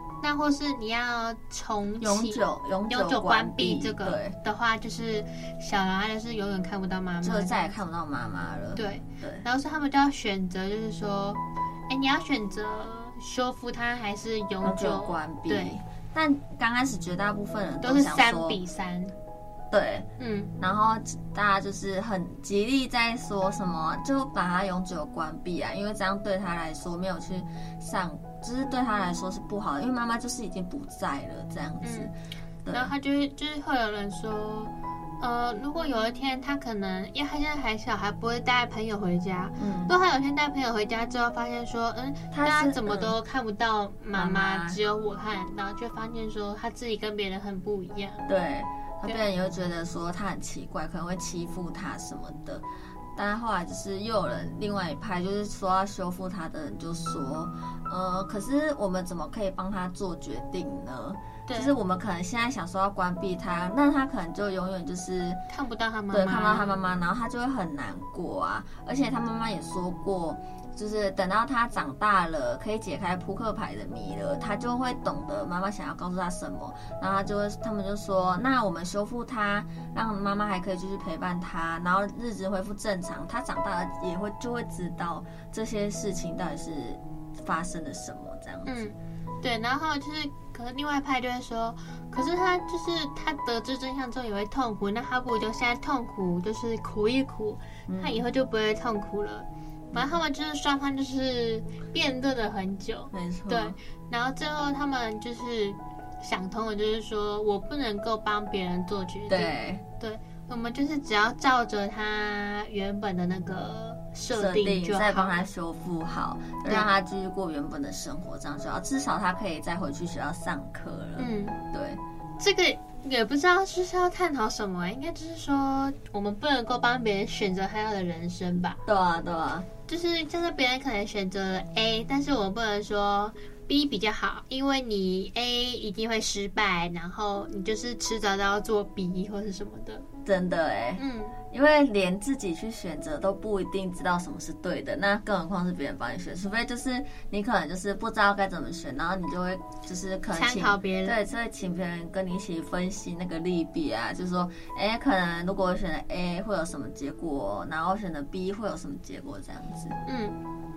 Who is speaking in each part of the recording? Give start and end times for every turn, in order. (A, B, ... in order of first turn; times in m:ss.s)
0:00.2-0:07.7 A
0:02.0-0:04.4 B
0:07.2-0:09.4 B
0:08.8-0:15.8 A
0:14.6-0:18.6 B
0:17.8-0:19.1 A
0:19.7-0:20.1 B
0:20.2-0:20.5 A
0:20.6-0:32.1 B
0:31.8-0:32.1 A
0:32.6-0:32.9 B
0:32.7-0:48.2 A
0:39.6-0:39.9 B
0:42.3-0:43.2 B
0:44.1-0:44.8 B
0:48.3-1:05.4 B
1:01.5-1:01.7 A
1:05.5-1:06.8 A
1:06.1-1:28.8 B
1:28.7-1:55.4 A
1:37.9-1:38.2 B
1:39.9-1:40.2 B
1:43.1-1:43.8 B
1:49.3-1:49.8 B
1:54.3-2:02.0 B
2:01.2-2:01.6 A
2:02.4-2:08.8 A
2:08.9-2:09.7 B
2:09.9-2:20.1 A
2:20.2-2:40.0 B
2:21.0-2:21.4 A
2:30.3-2:31.2 A
2:40.1-2:40.4 A